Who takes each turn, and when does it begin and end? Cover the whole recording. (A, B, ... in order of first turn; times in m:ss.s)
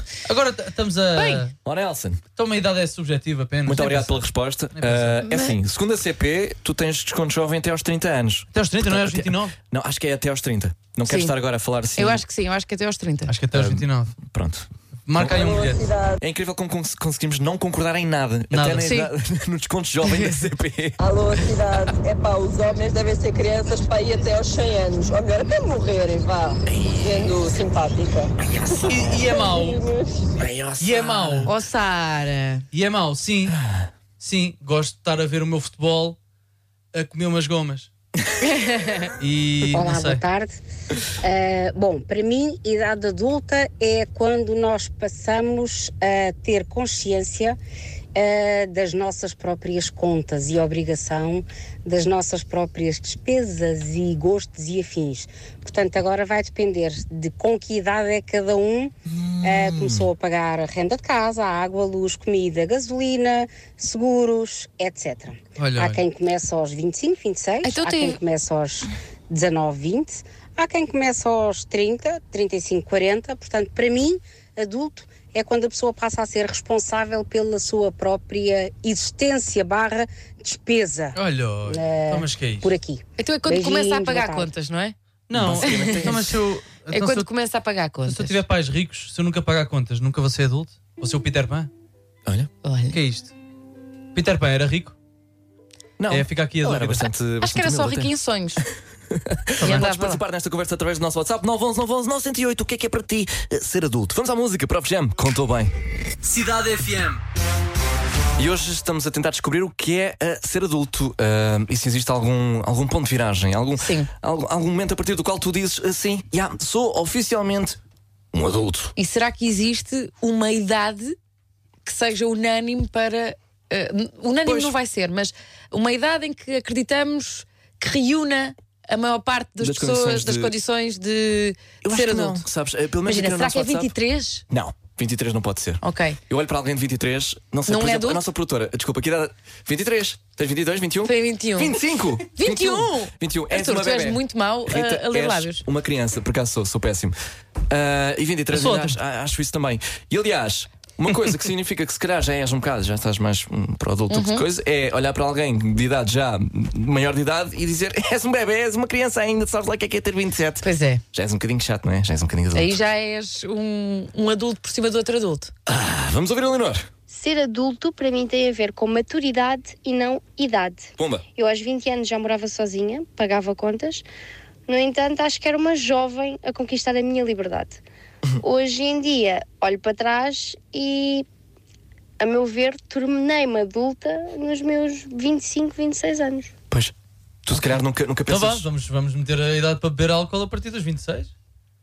0:00.2-0:01.5 A
0:01.6-0:02.2 B
0:02.4-0:04.2 A
0:03.6-0:12.2 B
0:04.7-0:05.2 A
0:05.2-0:05.5 C
0:08.5-0:09.5 A
0:11.1-0:11.3 C
0:12.0-0:13.3 C
0:13.3-0:14.2 A
0:13.5-0:15.4 B
0:15.1-0:15.8 A
0:15.2-0:16.2 D
0:16.2-0:21.1 B
0:18.5-0:18.9 A
0:18.8-0:19.1 C
0:20.0-0:20.4 C
0:21.0-0:30.3 D
0:26.7-0:27.2 B
0:28.5-0:29.1 B
0:28.8-0:29.8 A
0:30.4-0:31.5 B
0:30.8-0:31.5 A
0:31.5-0:32.6 C
0:32.7-0:33.6 A
0:34.2-0:36.2 A
0:36.9-0:37.9 A
0:38.5-0:39.1 C
0:39.2-0:40.2 A
0:39.7-0:40.6 E
0:41.2-0:47.6 E
0:48.1-1:24.5 E
0:59.1-1:00.1 B
1:05.6-1:06.0 A
1:07.6-1:08.2 C
1:21.2-1:22.7 A
1:23.2-1:24.9 C
1:25.3-1:27.3 A
1:25.3-1:26.4 B
1:25.6-1:26.1 C
1:26.9-1:28.3 C
1:28.0-1:31.7 A
1:32.6-1:33.0 C
1:32.9-1:33.3 A
1:34.1-1:34.9 A
1:36.0-1:38.1 B
1:36.1-1:37.1 A
1:37.4-1:38.6 C
1:39.1-1:45.7 B
1:39.6-1:40.2 C
1:46.3-1:47.2 A
1:48.4-1:57.8 B
1:53.8-1:54.1 C
1:58.3-1:58.9 B
1:59.0-2:01.2 C
2:01.8-2:12.4 C
2:04.4-2:04.7 B
2:09.6-2:10.5 B
2:11.8-2:13.9 B
2:13.0-2:14.4 C
2:14.5-2:27.2 B
2:15.8-2:16.2 C
2:17.7-2:18.2 C
2:21.0-2:21.8 C
2:22.3-2:25.6 C
2:27.7-2:42.7 B
2:28.5-2:29.0 A
2:34.1-2:34.4 C
2:40.6-2:41.0 C
2:42.5-2:45.5 C
2:45.7-2:46.9 B
2:47.1-2:54.0 F
2:51.0-2:51.2 B
2:54.7-2:57.8 F
2:58.4-3:01.2 F
3:02.2-3:06.5 F
3:07.4-3:08.7 B
3:08.3-3:11.3 A